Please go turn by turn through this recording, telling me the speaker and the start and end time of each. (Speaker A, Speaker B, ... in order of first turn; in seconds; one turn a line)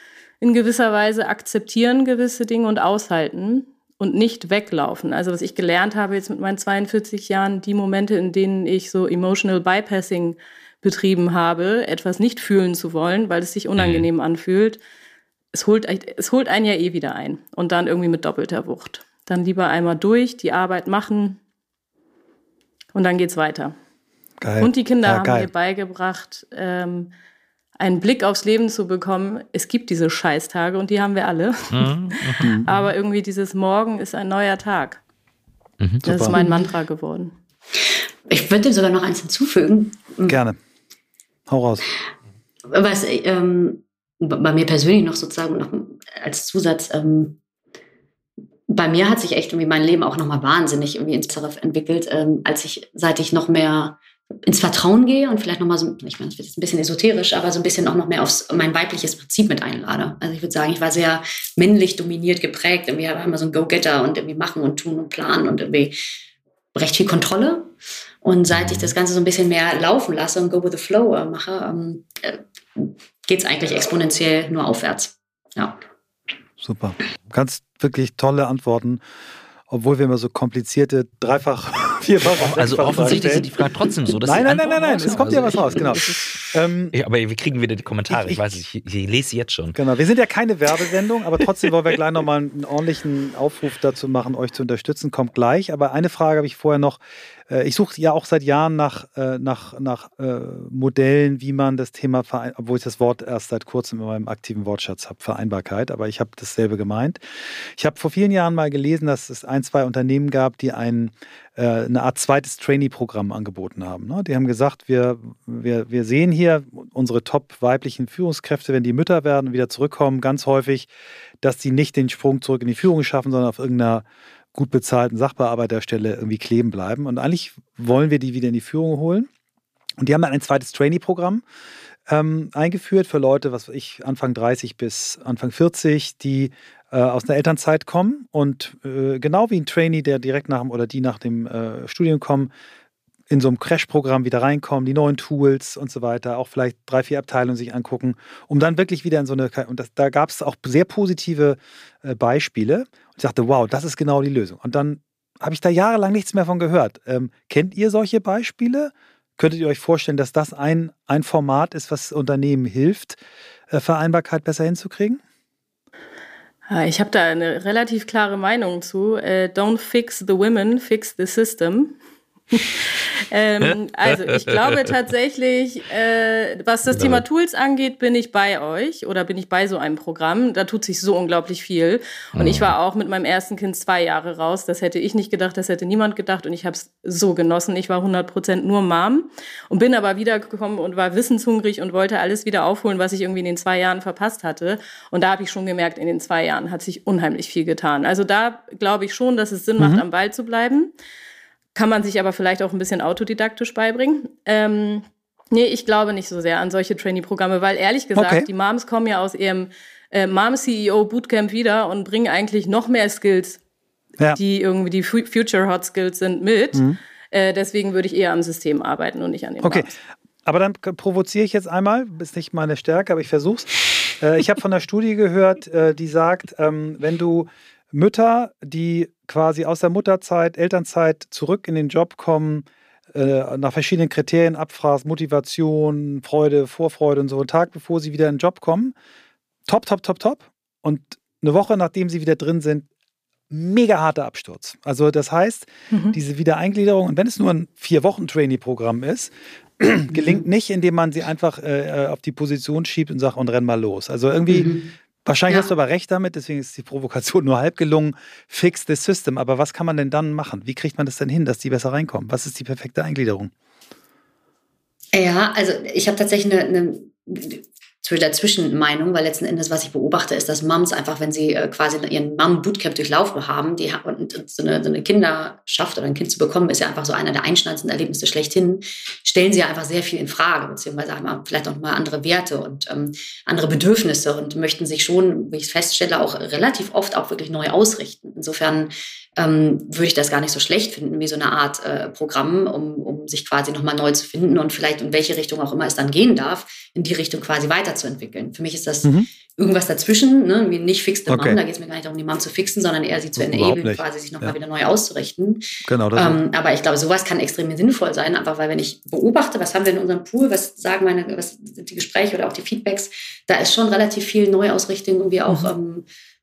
Speaker A: 0.4-14.8
Speaker B: 13.8-14.1
Speaker A: 15.5-21.4
Speaker A: 22.9-23.7
Speaker C: 24.4-25.5
Speaker A: 24.6-27.1
Speaker A: 27.8-35.0
Speaker B: 31.7-32.6
Speaker C: 32.4-32.7
Speaker A: 36.0-37.3
Speaker C: 36.0-36.4
Speaker D: 36.4-36.7
Speaker D: 37.8-40.4
Speaker C: 40.3-40.6
Speaker C: 41.5-41.9
Speaker D: 42.7-47.4
Speaker D: 48.7-66.0
Speaker D: 66.7-75.8
Speaker B: 68.5-68.9
Speaker C: 76.6-79.0
Speaker C: 79.7-83.5
Speaker B: 82.3-86.2
Speaker C: 84.2-86.9
Speaker B: 86.9-89.8
Speaker C: 88.1-88.4
Speaker C: 89.7-120.9
Speaker C: 121.4-129.3
Speaker C: 130.0-131.4
Speaker C: 132.1-142.5
Speaker C: 143.3-163.2
Speaker C: 163.7-165.2
Speaker A: 166.7-172.0
Speaker A: 172.5-200.9
Speaker B: 173.6-174.9
Speaker B: 176.9-177.2
Speaker B: 182.3-182.7
Speaker A: 201.7-213.6
Speaker C: 208.2-208.5
Speaker A: 214.4-219.9
Speaker C: 219.6-219.9
Speaker C: 220.4-238.9
Speaker C: 239.7-242.9
Speaker C: 243.5-254.7
Speaker D: 254.5-254.9
Speaker C: 255.2-263.5
Speaker D: 265.1-316.1
Speaker C: 301.3-301.6
Speaker C: 303.4-304.6
Speaker C: 305.8-306.4